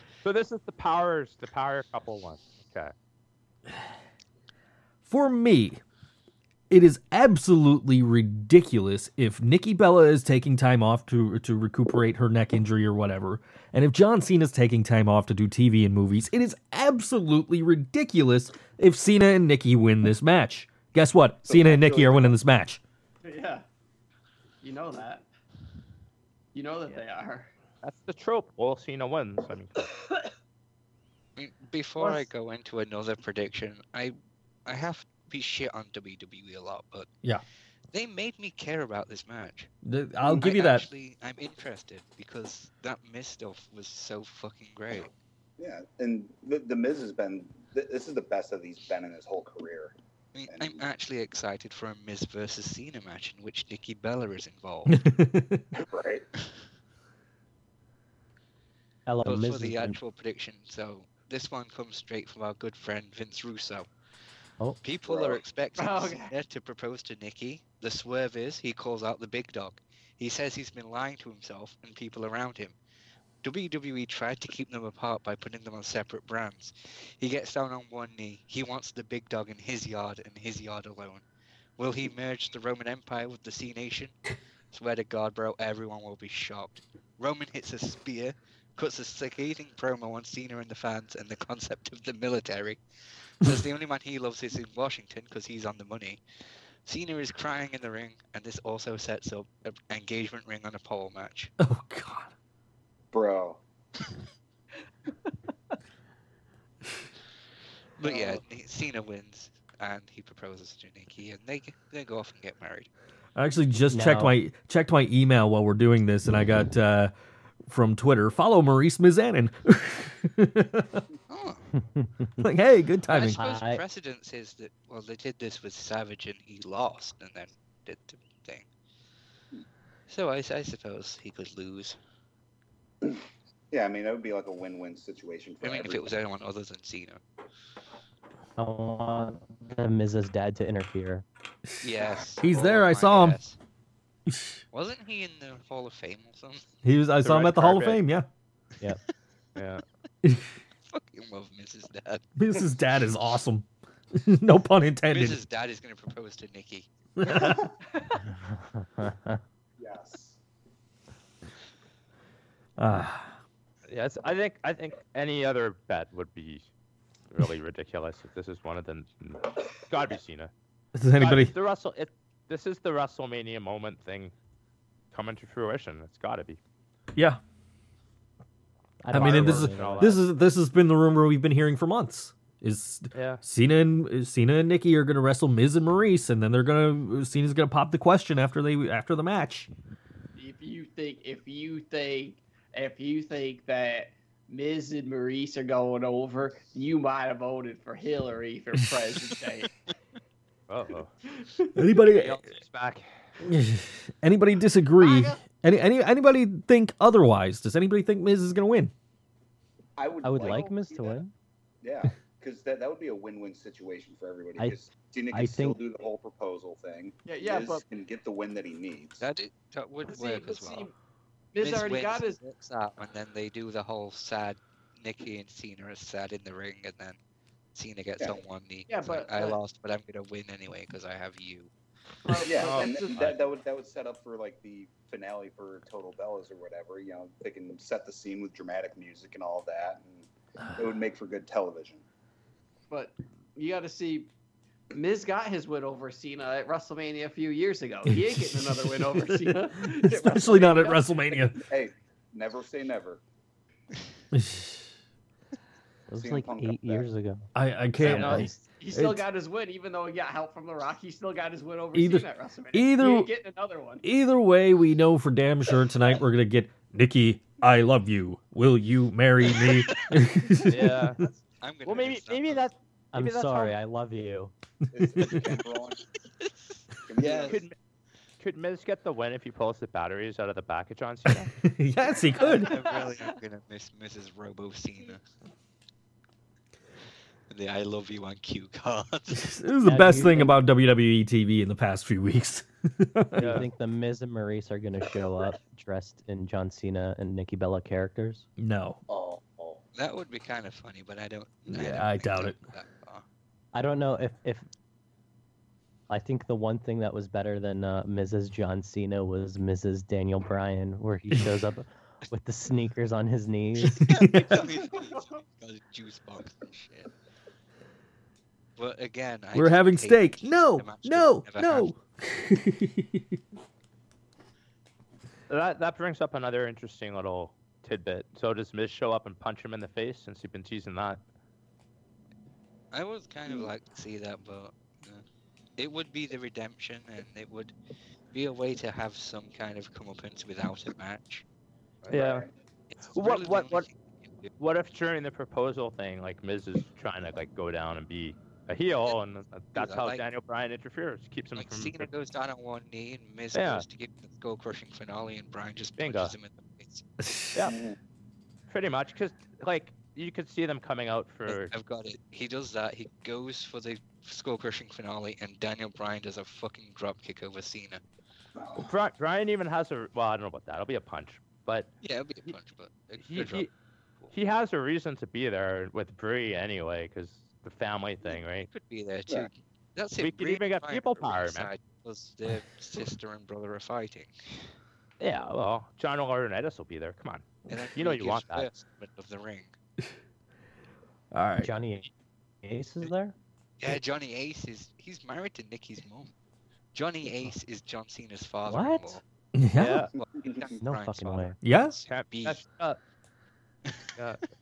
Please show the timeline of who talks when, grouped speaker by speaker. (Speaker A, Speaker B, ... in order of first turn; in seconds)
Speaker A: 0.2-2.9, 27.8-29.9, 147.2-148.0, 149.6-149.8, 163.9-166.7, 167.3-170.5, 171.2-174.3, 175.1-176.6, 179.1-180.2, 183.1-183.4, 200.7-201.1, 202.1-203.1, 258.1-258.4, 270.7-271.2, 271.9-273.8, 277.5-277.8, 278.4-281.5, 293.4-293.7, 325.5-331.2, 342.1-342.5, 343.1-343.9, 344.6-352.1, 353.5-353.9, 356.0-356.4, 358.7-361.7, 368.8-371.9, 373.2-373.7, 374.3-378.7, 380.2-381.7, 385.2-388.7, 399.8-400.1, 402.1-403.0
Speaker B: 5.0-5.8, 6.7-22.8, 39.8-40.9, 54.9-55.6, 101.6-102.3, 113.3-117.1, 117.7-121.0, 122.4-123.4, 142.4-143.4, 144.3-144.6, 146.8-148.3, 150.2-150.5, 152.4-155.4, 157.2-157.7, 162.8-163.4, 170.9-171.5, 179.1-189.7, 201.8-202.4, 203.4-208.9, 248.1-251.6, 254.3-254.8, 257.6-259.2, 261.9-263.3, 264.0-271.0, 281.6-282.8, 289.3-293.6, 298.6-299.0, 301.7-302.6, 314.1-314.6, 319.5-323.4, 357.2-357.6, 391.3-391.7, 399.5-400.1, 401.6-401.9
Speaker C: 21.4-22.4, 45.6-50.0, 50.5-50.8, 55.7-56.3, 65.1-65.4, 103.1-103.6, 108.0-108.4, 133.0-136.2, 159.8-160.4, 210.0-211.2, 211.8-219.2, 232.4-242.0, 251.6-253.2, 256.2-257.1, 274.9-276.0, 277.1-277.6, 299.1-299.8, 342.0-342.5, 357.6-358.0, 400.4-400.7
Speaker D: 23.2-23.6, 24.6-25.3, 26.5-27.5, 32.0-32.3, 65.8-66.3, 190.4-199.7, 201.3-201.9, 205.0-205.4, 210.4-210.7, 217.2-217.8, 220.1-220.9, 221.5-222.4, 228.9-229.6, 232.2-233.3, 242.9-244.3, 244.9-251.1, 258.0-264.1, 282.5-283.2, 315.0-315.4
Speaker E: 31.4-34.1, 34.7-37.1, 37.9-39.7, 40.3-45.1, 50.3-55.0, 59.2-63.9, 64.8-72.8, 73.4-81.2, 81.8-84.2, 84.7-92.8, 93.4-96.2, 96.8-101.5, 108.0-112.9, 121.3-121.7, 123.1-128.7, 130.1-132.0, 135.6-137.2, 141.8-143.6, 144.7-146.7, 150.8-152.3, 155.1-156.9, 219.2-220.9, 221.6-227.2, 227.8-231.7, 271.6-272.7, 277.2-277.6, 282.4-285.2, 287.5-289.5, 299.9-303.2, 314.0-317.1, 318.8-321.9, 332.9-335.2, 335.8-337.7, 338.3-341.4, 342.9-344.5, 349.8-350.2, 351.6-357.1, 361.5-368.0, 372.0-373.7, 378.3-384.7, 387.7-389.8, 393.8-396.3, 396.9-399.2, 400.2-402.6
Speaker F: 59.1-60.0, 113.9-114.3, 121.9-122.5, 123.4-123.8, 138.6-141.2, 158.2-159.4, 179.0-180.2, 210.2-211.3, 215.3-215.8, 256.1-257.5, 258.1-258.6, 273.1-274.5, 289.8-290.6, 293.4-298.5, 303.7-304.7, 306.1-314.1, 391.6-392.1, 392.6-393.4, 398.7-399.2, 400.8-401.6